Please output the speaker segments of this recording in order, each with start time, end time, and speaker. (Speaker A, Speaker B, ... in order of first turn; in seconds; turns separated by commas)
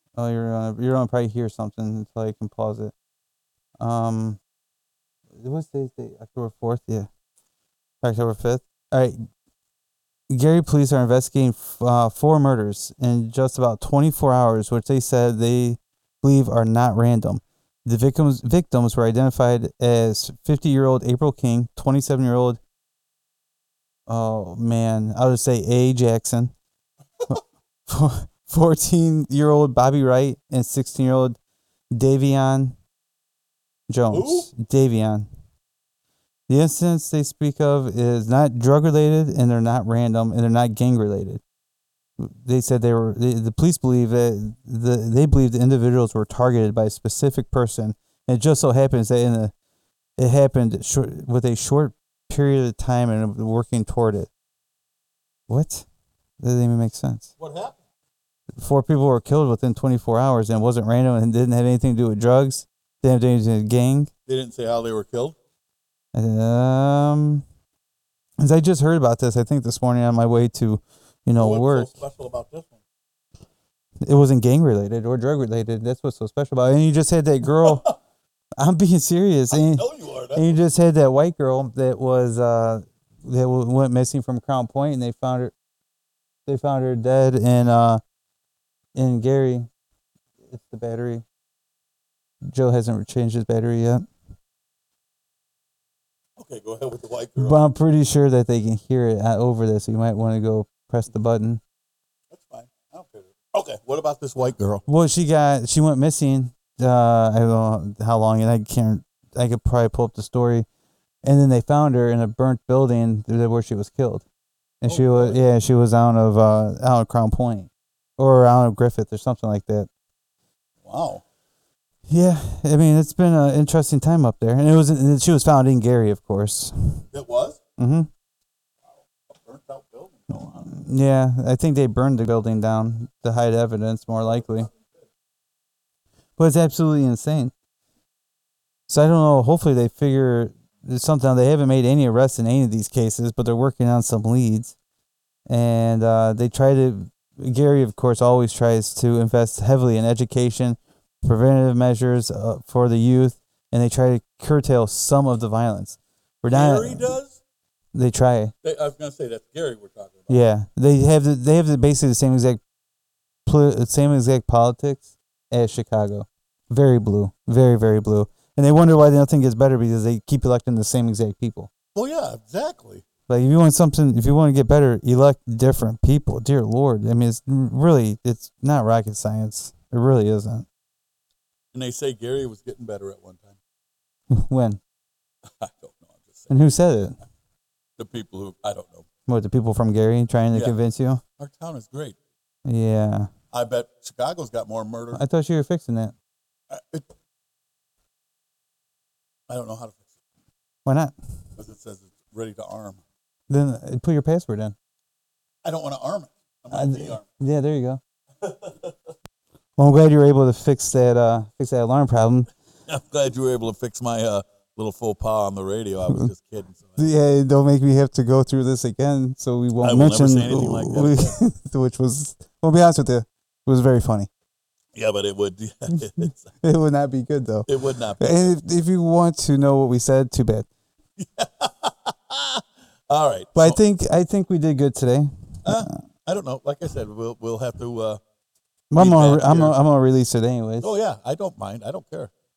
Speaker A: 0.1-2.9, Speaker A: 3.8-4.4, Speaker A: 5.4-7.1, Speaker A: 8.0-9.2, Speaker A: 10.3-22.6, Speaker A: 24.1-26.5, Speaker A: 27.3-31.4, Speaker A: 31.9-32.8, Speaker A: 33.9-35.3, Speaker B: 34.1-34.5, Speaker A: 36.5-41.4, Speaker A: 42.2-49.5, Speaker A: 50.2-54.3, Speaker A: 55.5-55.9, Speaker A: 56.4-57.3, Speaker B: 57.4-57.8, Speaker A: 58.6-64.1, Speaker B: 64.3-65.4, Speaker A: 66.1-67.5, Speaker A: 68.4-72.0, Speaker B: 71.4-72.8, Speaker A: 74.0-77.9, Speaker B: 77.6-77.9, Speaker A: 78.6-85.5, Speaker B: 79.5-80.6, Speaker A: 86.5-88.0, Speaker A: 89.0-89.7, Speaker A: 90.5-91.2, Speaker A: 92.5-94.1, Speaker B: 96.4-97.6, Speaker A: 97.4-101.6, Speaker B: 102.3-104.8, Speaker A: 104.9-110.7, Speaker A: 111.2-114.3, Speaker A: 114.8-119.9, Speaker B: 114.9-115.4, Speaker B: 120.8-121.2, Speaker A: 122.1-127.0, Speaker B: 127.1-127.6, Speaker A: 127.8-128.1, Speaker B: 128.9-130.7, Speaker A: 130.4-134.7, Speaker A: 136.4-137.5, Speaker A: 138.9-144.7, Speaker A: 145.5-157.2, Speaker B: 156.5-157.4, Speaker A: 157.9-158.5, Speaker B: 158.6-160.4, Speaker A: 160.3-162.6, Speaker A: 163.4-171.7, Speaker B: 171.9-173.0, Speaker A: 173.3-180.7, Speaker B: 181.7-183.6, Speaker A: 184.3-184.8, Speaker B: 185.4-186.5, Speaker A: 186.5-187.2, Speaker B: 188.0-189.1, Speaker A: 189.3-191.2, Speaker B: 191.4-192.2, Speaker A: 192.6-193.3, Speaker B: 193.5-195.2, Speaker A: 195.1-196.1, Speaker B: 196.7-197.1, Speaker B: 199.5-200.1, Speaker A: 200.9-201.1, Speaker B: 201.6-203.0, Speaker A: 203.5-204.7, Speaker B: 205.6-207.2, Speaker A: 206.7-208.0, Speaker B: 208.4-208.9, Speaker A: 209.8-212.5, Speaker B: 212.9-217.1, Speaker A: 217.0-224.3, Speaker B: 219.8-221.4, Speaker B: 224.9-226.5, Speaker A: 226.6-230.7, Speaker B: 227.7-228.5, Speaker B: 231.2-233.8, Speaker A: 233.6-236.0, Speaker B: 235.6-238.2, Speaker A: 238.9-240.9, Speaker B: 238.9-239.8, Speaker B: 240.8-242.3